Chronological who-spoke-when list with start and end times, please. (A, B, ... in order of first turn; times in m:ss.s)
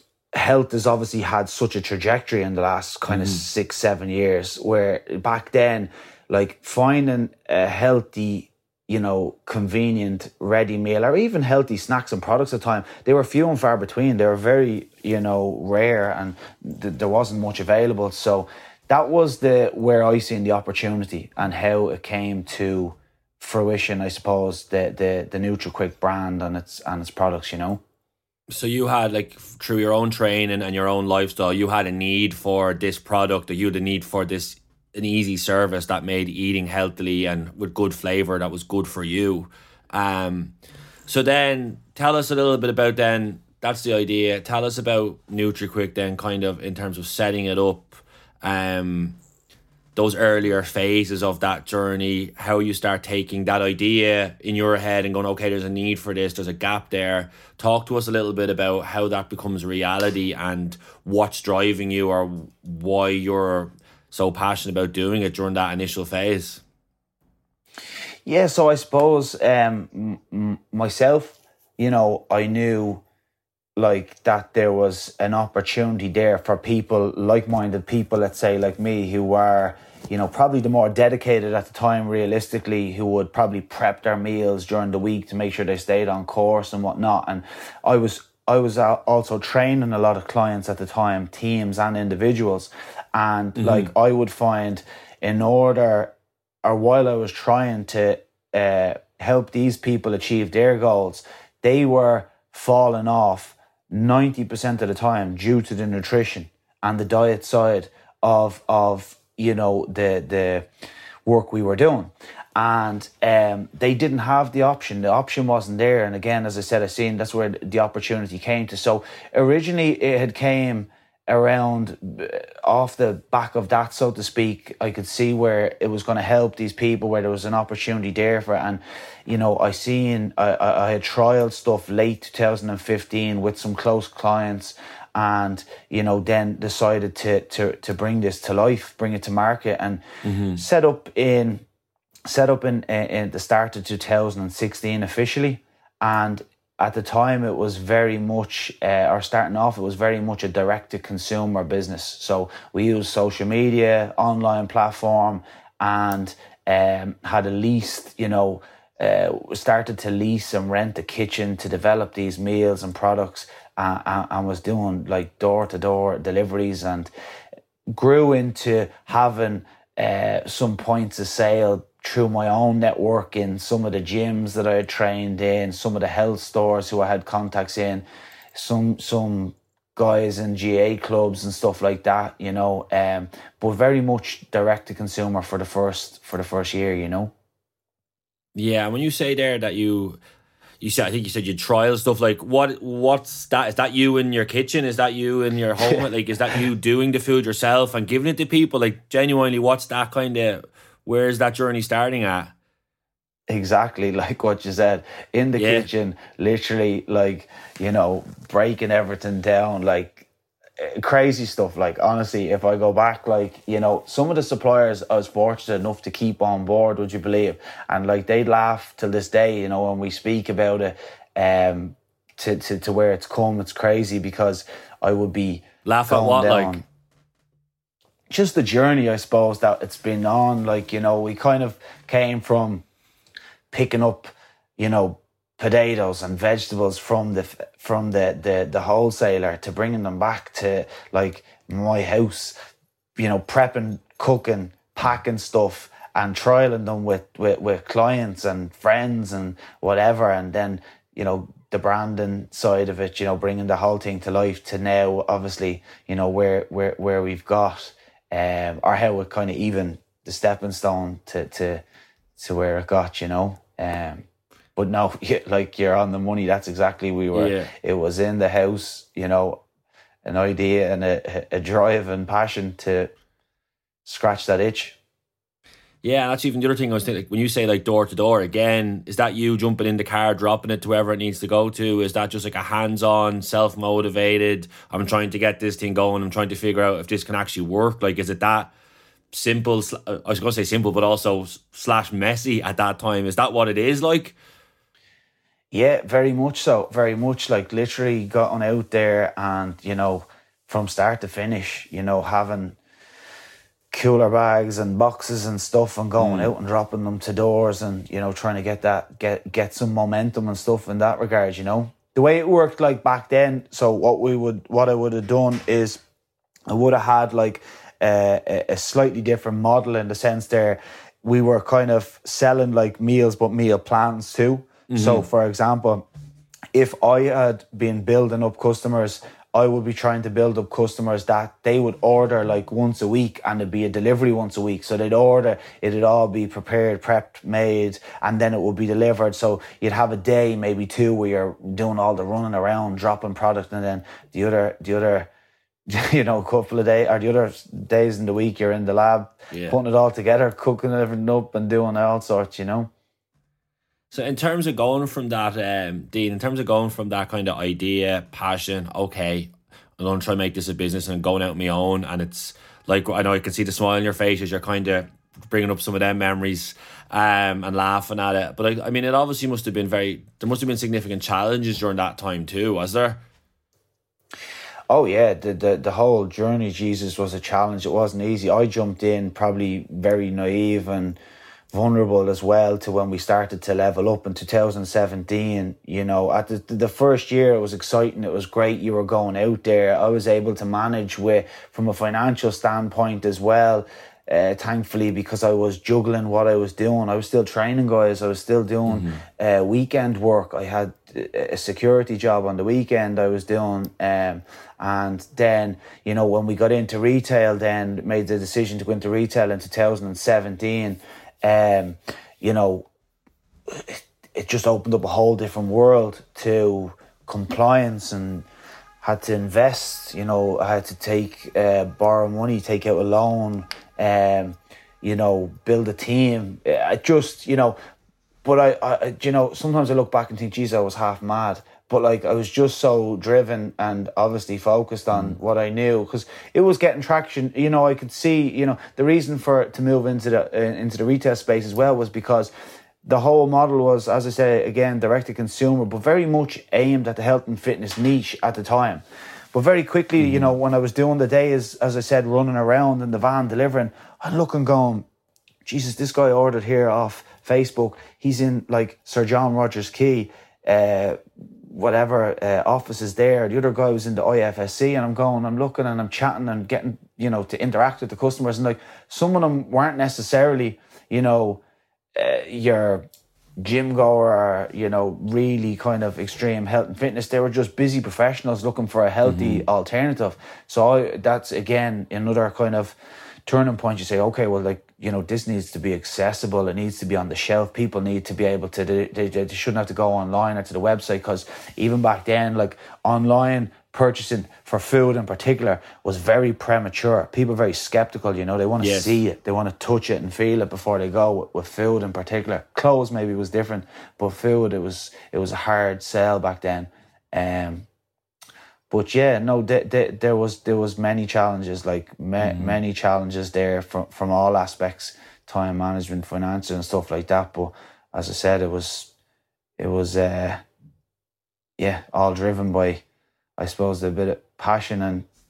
0:00.3-0:27.8 A
0:03.1-0:03.4 B
0:28.5-0:40.5 B
0:41.1-0:49.2 B
0:49.9-1:06.6 B
1:08.2-1:13.0 A
1:13.8-1:50.7 A
1:33.6-1:33.9 B
1:51.2-2:20.0 A
2:20.2-2:20.6 B
2:20.5-2:21.6 A
2:22.3-2:47.1 A
2:47.9-3:07.3 A
3:08.5-3:10.2 B
3:10.8-3:22.5 B
3:23.5-3:30.3 A
3:25.6-3:25.9 B
3:30.8-3:46.8 A
3:45.8-3:46.8 B
3:48.3-3:52.8 A
3:53.7-4:02.5 A
4:03.2-4:21.8 A
4:22.4-4:24.2 A
4:24.8-4:29.6 A
4:27.3-4:27.7 B
4:30.2-4:33.1 A
4:34.0-4:35.0 A
4:36.0-4:48.7 B
4:49.3-4:54.3 B
4:55.7-5:02.8 A
5:03.9-5:16.0 A
5:06.2-5:06.5 B
5:16.7-5:26.0 A
5:24.9-5:25.2 B
5:26.7-5:45.3 A
5:45.9-5:52.9 A
5:49.5-5:49.8 B
5:54.1-6:13.2 B
6:14.9-6:21.2 A
6:21.7-6:52.9 A
6:38.9-6:39.2 B
6:53.7-6:58.4 A
6:59.0-7:07.8 A
7:08.4-7:22.5 A
7:23.0-7:35.0 A
7:30.2-7:30.5 B
7:35.6-7:51.6 A
7:52.2-7:53.0 A
7:53.6-8:27.9 A
7:59.2-7:59.6 B
8:18.8-8:19.2 B
8:28.9-8:39.1 A
8:32.4-8:32.8 B
8:39.8-8:40.6 A
8:41.8-8:43.0 A
8:43.6-8:45.3 A